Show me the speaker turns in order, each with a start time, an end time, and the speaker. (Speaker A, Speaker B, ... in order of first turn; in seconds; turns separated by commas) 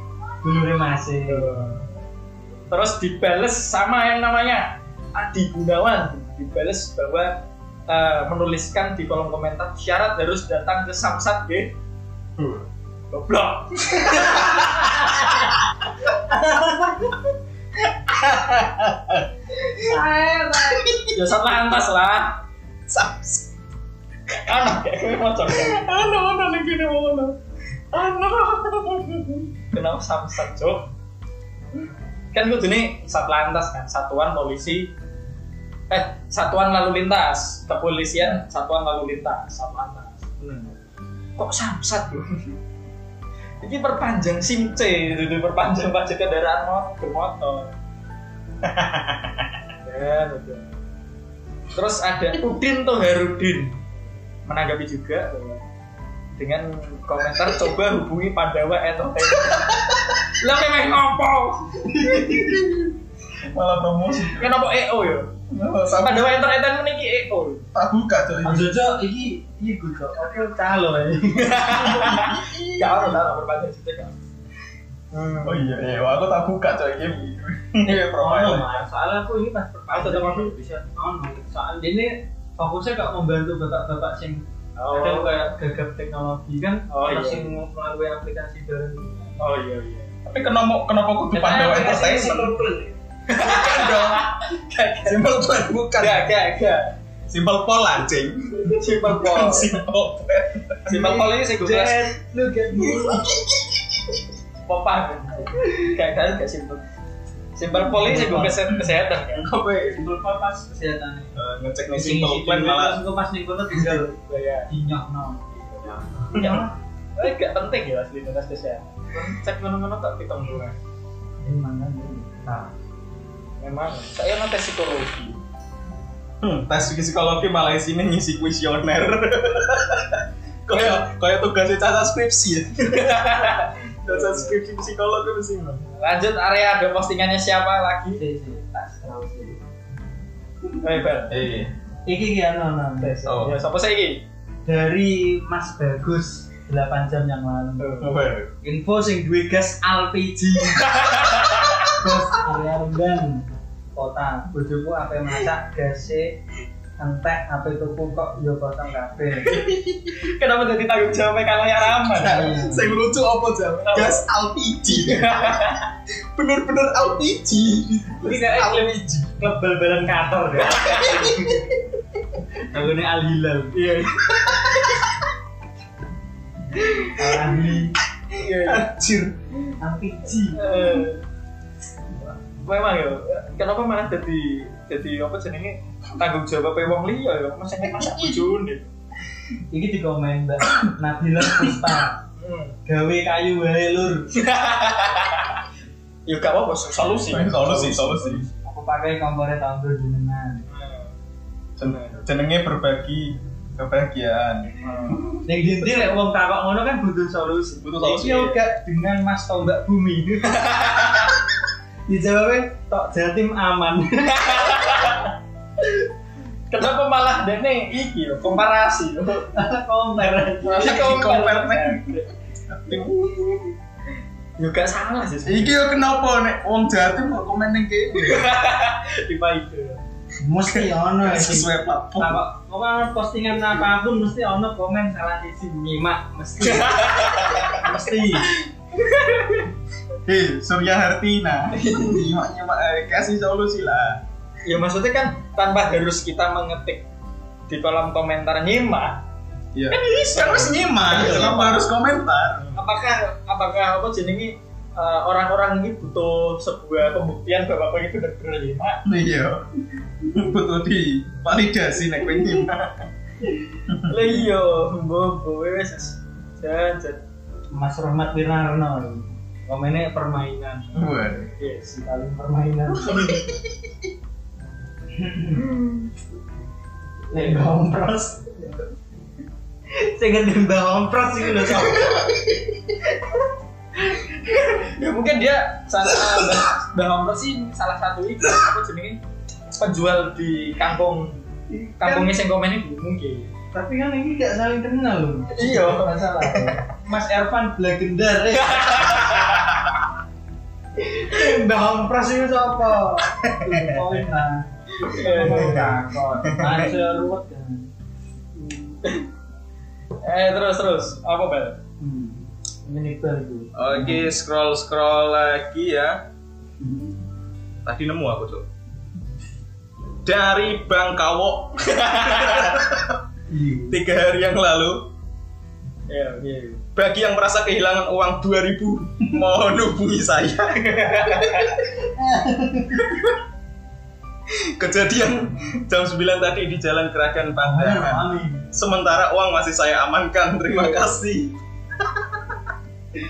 Speaker A: 0.4-1.5, Speaker B: 1.3-1.8, Speaker B: 2.7-11.7, Speaker C: 12.4-12.7, Speaker B: 13.1-15.5, Speaker C: 14.1-15.1, Speaker A: 16.3-17.0, Speaker C: 18.2-19.2, Speaker A: 19.7-20.9, Speaker C: 20.6-21.1, Speaker B: 21.1-22.4, Speaker C: 22.9-23.5, Speaker B: 24.3-25.9, Speaker C: 25.5-27.4, Speaker C: 27.9-29.5, Speaker B: 29.7-30.9, Speaker B: 32.3-34.9, Speaker B: 35.9-40.7, Speaker B: 41.4-42.5, Speaker B: 43.6-47.7, Speaker C: 48.7-49.3, Speaker B: 49.8-50.6, Speaker B: 51.7-53.8, Speaker B: 54.5-55.6, Speaker B: 56.4-62.5, Speaker C: 59.5-60.1, Speaker C: 61.9-63.0, Speaker C: 63.5-64.5, Speaker B: 64.2-65.3, Speaker C: 65.5-66.4, Speaker B: 65.9-67.7, Speaker C: 67.7-68.8, Speaker A: 68.4-72.0, Speaker B: 71.3-74.1, Speaker C: 71.7-73.1, Speaker B: 75.1-75.8, Speaker C: 75.4-78.8, Speaker A: 78.2-89.3, Speaker B: 79.9-80.5, Speaker B: 84.8-85.5, Speaker B: 86.9-87.5, Speaker B: 89.4-90.4, Speaker C: 90.3-92.6, Speaker A: 91.3-93.0, Speaker B: 93.3-95.2, Speaker C: 93.4-94.3, Speaker C: 95.0-96.3, Speaker B: 96.0-96.9, Speaker C: 97.3-101.2, Speaker B: 98.6-99.7, Speaker B: 100.8-102.1, Speaker A: 101.3-103.3, Speaker C: 102.8-103.8, Speaker B: 104.7-106.8, Speaker B: 107.5-109.5, Speaker A: 107.7-108.7, Speaker C: 109.3-110.0, Speaker A: 109.9-111.4, Speaker C: 111.3-113.0, Speaker A: 111.9-114.1, Speaker B: 113.9-114.7, Speaker A: 114.7-116.5, Speaker C: 115.9-116.7, Speaker B: 116.3-120.8, Speaker A: 121.4-122.3, Speaker C: 122.5-122.7, Speaker B: 123.6-125.4, Speaker C: 126.4-135.8, Speaker B: 130.7-131.0, Speaker B: 132.9-134.6, Speaker B: 136.0-138.2, Speaker A: 138.1-139.6, Speaker B: 140.8-141.3, Speaker C: 141.3-141.7, Speaker A: 142.1-143.2, Speaker B: 143.0-144.2, Speaker C: 143.2-143.6, Speaker A: 144.7-147.9, Speaker B: 147.8-148.2, Speaker C: 148.0-148.5, Speaker A: 148.6-150.9, Speaker B: 150.8-151.8, Speaker A: 151.9-156.4, Speaker A: 157.0-159.6, Speaker B: 159.5-162.5, Speaker A: 162.2-163.0, Speaker C: 162.2-165.6, Speaker B: 163.8-164.2, Speaker B: 164.8-165.9, Speaker C: 166.3-169.3, Speaker A: 168.2-171.5, Speaker B: 170.7-171.3, Speaker C: 171.1-171.6, Speaker A: 172.6-173.7, Speaker B: 173.7-174.8, Speaker B: 176.9-177.4, Speaker A: 177.1-177.9, Speaker B: 178.3-178.9, Speaker C: 178.6-179.4, Speaker A: 179.8-180.7, Speaker B: 180.5-181.2, Speaker B: 182.5-188.9, Speaker A: 189.7-192.2, Speaker B: 192.4-192.8, Speaker A: 192.8-194.3, Speaker B: 194.3-195.6, Speaker B: 196.2-198.6, Speaker C: 197.1-198.5, Speaker A: 198.6-200.6, Speaker B: 200.7-201.1, Speaker C: 201.8-205.4, Speaker B: 204.8-205.3, Speaker A: 205.4-210.7, Speaker C: 207.8-208.6, Speaker B: 210.6-211.3, Speaker A: 212.1-215.2, Speaker B: 214.3-215.3, Speaker B: 216.7-219.5, Speaker A: 219.5-221.3, Speaker B: 220.6-222.3, Speaker C: 220.7-223.4, Speaker B: 224.6-225.8, Speaker C: 225.4-228.5, Speaker B: 228.2-230.0, Speaker A: 230.4-238.5, Speaker C: 231.2-232.4, Speaker B: 236.6-239.7, Speaker C: 240.2-244.2, Speaker B: 241.7-242.2, Speaker B: 244.6-247.0, Speaker B: 247.7-249.2, Speaker C: 249.7-252.8, Speaker B: 249.9-251.9, Speaker B: 252.7-259.0, Speaker C: 259.0-259.6, Speaker C: 260.2-263.1, Speaker C: 263.9-264.3, Speaker B: 264.0-267.2, Speaker A: 267.7-271.1, Speaker C: 270.9-271.5, Speaker B: 271.6-271.9, Speaker A: 271.8-273.4, Speaker C: 273.1-273.5, Speaker A: 275.1-275.7, Speaker A: 277.3-278.7, Speaker A: 279.9-282.3, Speaker B: 283.9-289.2, Speaker C: 286.2-286.6, Speaker B: 289.8-291.4, Speaker A: 291.7-292.3, Speaker B: 292.0-293.5, Speaker A: 293.7-299.4, Speaker B: 295.5-296.8, Speaker B: 298.6-299.6, Speaker A: 301.1-307.9, Speaker C: 303.4-304.1, Speaker B: 305.0-306.0, Speaker C: 306.4-306.9, Speaker B: 308.5-309.3, Speaker B: 310.2-311.8, Speaker A: 312.0-314.3, Speaker C: 313.7-316.2, Speaker C: 317.8-318.6, Speaker C: 320.2-323.2, Speaker B: 322.0-322.8, Speaker A: 323.5-324.0, Speaker C: 323.9-325.1, Speaker B: 326.1-326.8, Speaker C: 326.9-331.8, Speaker B: 330.8-331.8, Speaker A: 331.9-333.1, Speaker C: 333.0-333.3, Speaker C: 334.5-342.6, Speaker A: 337.6-338.6